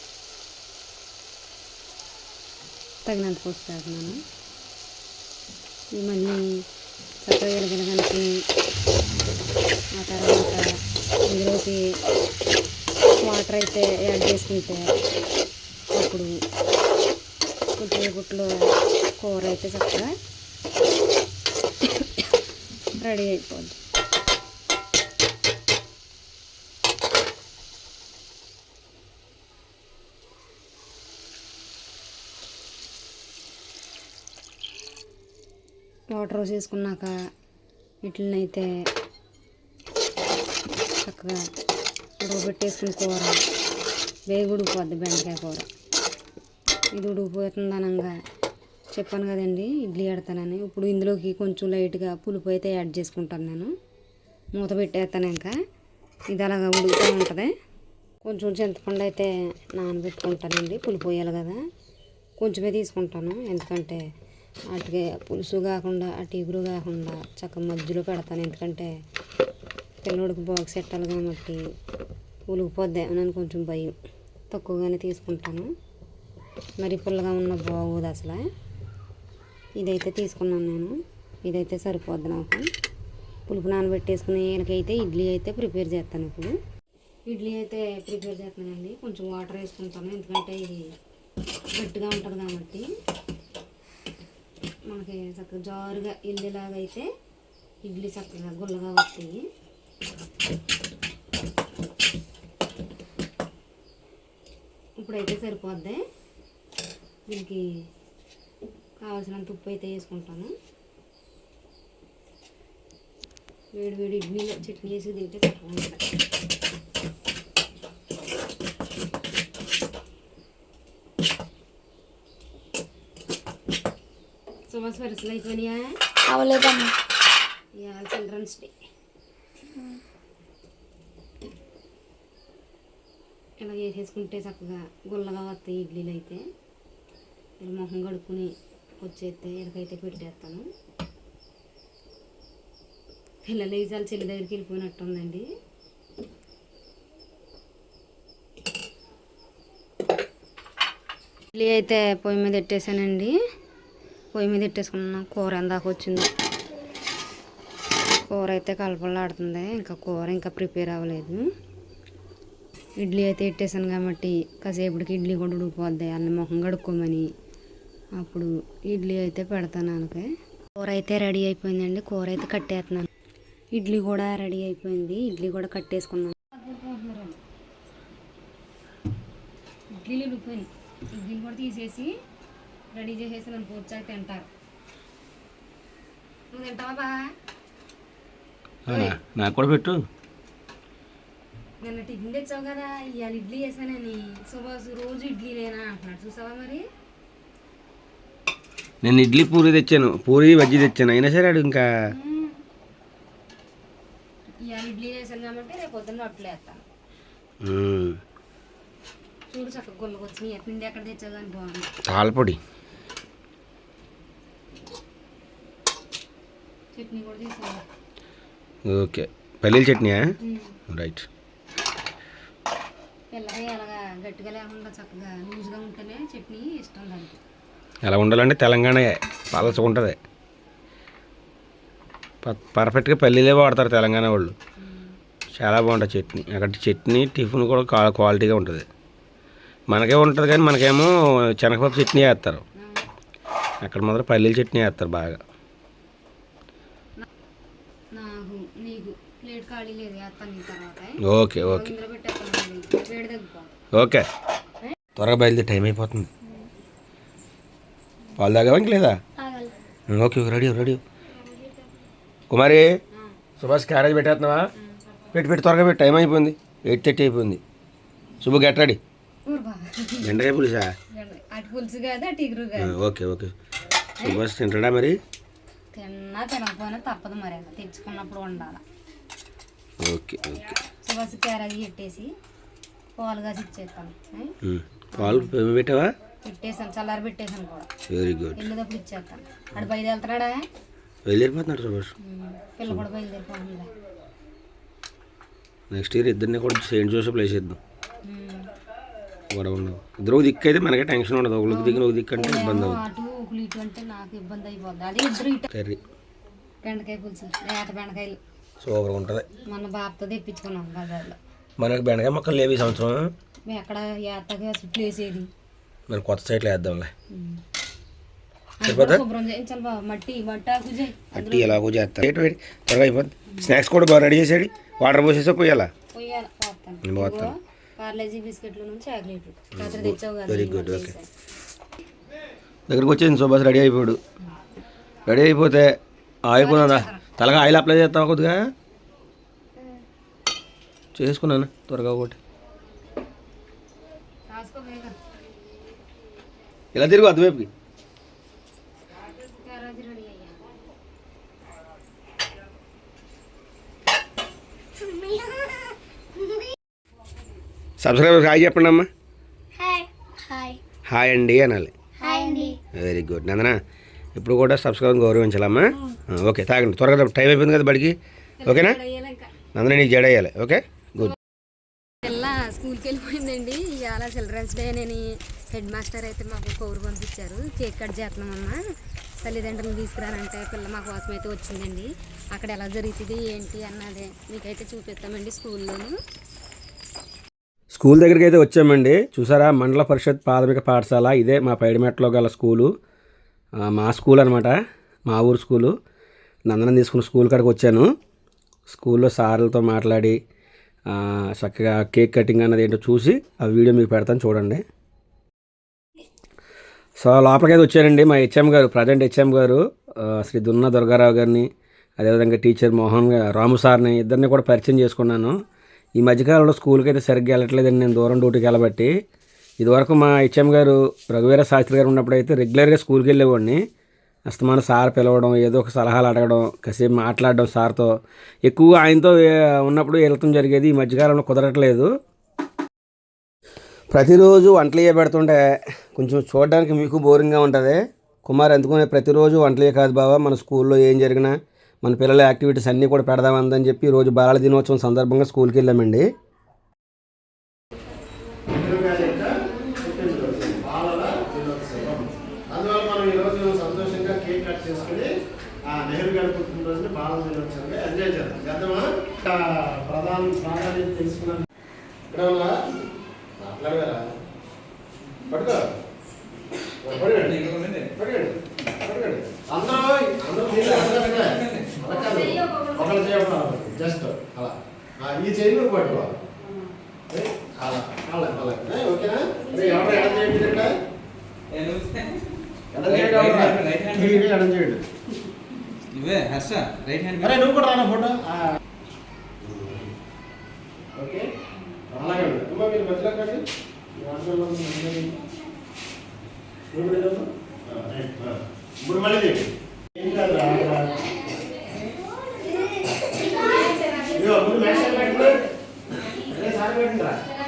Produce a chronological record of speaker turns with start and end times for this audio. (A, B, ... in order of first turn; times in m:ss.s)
0:03.0-0:04.2 A
0:06.0-0:06.4 A
0:07.2-0:08.3 A
0:10.0-0:10.7 A
0:11.2-0:11.8 A
0:13.2-0:14.8 A
0:15.9-0:16.3 A
0:17.8-0:18.5 A
0:19.2-0:20.1 A
0:21.8-0:22.2 A
0:23.0-0:23.8 A
0:36.1-0:37.1 A
0:38.0-0:38.7 A
0:41.0-0:41.4 A
0:42.2-0:43.4 A
0:44.3-0:45.7 A
0:46.9-0:48.1 A
0:48.9-0:53.7 A
0:54.6-0:55.5 A
0:56.3-0:57.5 A
0:58.2-1:01.6 A
1:02.4-1:04.0 A
1:04.7-1:08.9 A
1:10.0-1:11.6 A
1:12.5-1:13.9 A
1:14.5-1:15.7 A
1:16.8-1:18.4 A
1:19.8-1:22.7 A
1:23.5-1:26.5 A
1:27.3-1:30.9 A
1:31.7-1:32.9 A
1:34.9-1:37.1 A
1:37.8-1:39.4 A
1:45.0-1:46.0 A
1:47.3-1:47.6 A
1:49.0-1:50.5 A
1:53.7-1:56.0 A
2:04.7-2:06.0 A
2:06.2-2:06.9 B
2:07.8-2:08.7 A
2:13.6-2:16.4 A
2:17.6-2:20.7 A
2:23.4-2:25.4 A
2:31.5-2:33.3 A
2:34.3-2:36.3 A
2:38.3-2:41.4 A
2:43.0-2:47.2 A
2:48.2-2:50.2 A
2:50.8-2:53.1 A
2:53.7-2:57.4 A
2:59.9-3:02.1 A
3:02.9-3:04.5 A
3:06.5-3:07.3 A
3:08.8-3:10.0 C
3:08.9-3:09.2 A
3:11.8-3:16.8 A
3:19.0-3:21.9 C
3:22.2-3:22.5 A
3:24.6-3:26.8 A
3:27.6-3:28.2 C
3:29.5-3:31.9 A
3:32.0-3:32.6 C
3:36.9-3:37.8 A
3:38.8-3:40.3 C
3:40.4-3:40.8 A
3:40.9-3:41.2 C
3:43.3-3:47.4 A
3:48.0-3:50.2 C
3:52.4-3:54.5 C
3:54.8-3:55.1 A
3:55.5-3:58.8 C
3:59.9-4:02.6 C
4:02.8-4:03.0 A
4:03.8-4:05.4 C
4:08.1-4:13.7 A
4:11.2-4:11.9 C
4:13.9-4:14.3 C
4:15.2-4:16.3 C
4:18.4-4:19.2 C
4:19.4-4:19.7 B
4:20.1-4:21.0 C
4:22.5-4:22.9 C
4:23.6-4:24.7 C
4:25.3-4:27.6 C
4:28.4-4:29.0 C
4:29.4-4:30.4 A
4:30.2-4:30.9 C
4:31.1-4:32.9 A
4:32.8-4:33.5 C
4:34.2-4:35.2 C
4:35.9-4:38.8 A
4:40.0-4:40.8 C
4:40.9-4:42.3 A
4:43.2-4:44.5 A
4:44.6-4:46.1 C
4:45.2-4:45.5 A
4:46.4-4:47.9 A
4:48.1-4:48.6 C
4:48.6-4:50.6 A
4:51.2-4:52.1 C
4:52.2-4:53.9 A
4:55.9-4:57.8 C
4:58.2-4:58.7 A
4:59.5-5:03.0 C
5:01.7-5:05.7 A
5:05.7-5:06.0 C
5:06.8-5:08.4 A
5:08.8-5:09.5 C
5:09.6-5:11.4 A
5:11.8-5:13.3 C
5:13.7-5:15.5 A
5:16.1-5:17.1 C
5:17.3-5:17.6 A
5:18.8-5:21.8 A
5:18.8-5:19.2 C
5:21.3-5:25.9 C
5:26.1-5:31.3 A
5:27.0-5:27.5 C
5:29.8-5:31.1 C
5:32.9-5:34.2 C
5:35.2-5:38.6 C
5:36.6-5:37.2 A
5:41.1-5:42.4 C
5:44.5-5:45.2 A
5:46.9-5:47.7 C
5:49.2-5:50.8 A
5:55.0-5:55.7 B
5:58.0-5:59.1 C
5:59.8-6:00.8 B
6:01.0-6:01.9 C
6:02.2-6:02.8 B
6:02.9-6:03.8 C
6:04.3-6:09.0 C
6:08.6-6:09.5 A
6:09.7-6:11.4 C
6:12.2-6:18.8 A
6:19.4-6:26.1 A
6:27.9-6:32.9 C
6:33.8-6:35.9 C
6:36.7-6:38.1 C
6:38.9-6:40.4 C
6:41.1-6:44.8 C
6:47.2-6:51.7 C
6:52.2-6:55.5 C
6:56.2-6:59.1 C
6:59.8-7:03.8 C
7:04.5-7:08.1 C
7:08.6-7:12.1 C
7:14.1-7:15.6 C
7:16.1-7:26.2 C
7:28.7-7:35.3 D
7:35.8-7:41.6 D
7:42.3-7:42.8 D
7:43.6-7:44.3 D
7:45.5-7:45.9 D
7:47.0-7:56.4 D
7:47.7-7:48.0 E
7:57.3-8:01.0 D
8:01.8-8:02.2 E
8:02.9-8:05.0 D
8:03.6-8:04.1 E
8:06.1-8:07.4 E
8:07.4-8:08.6 D
8:09.6-8:10.1 D
8:11.1-8:11.5 D
8:12.1-8:13.6 D
8:14.2-8:15.4 D
8:16.9-8:21.3 D
8:22.4-8:23.0 B
8:23.7-8:24.1 B
8:24.2-8:25.7 D
8:26.3-8:27.4 D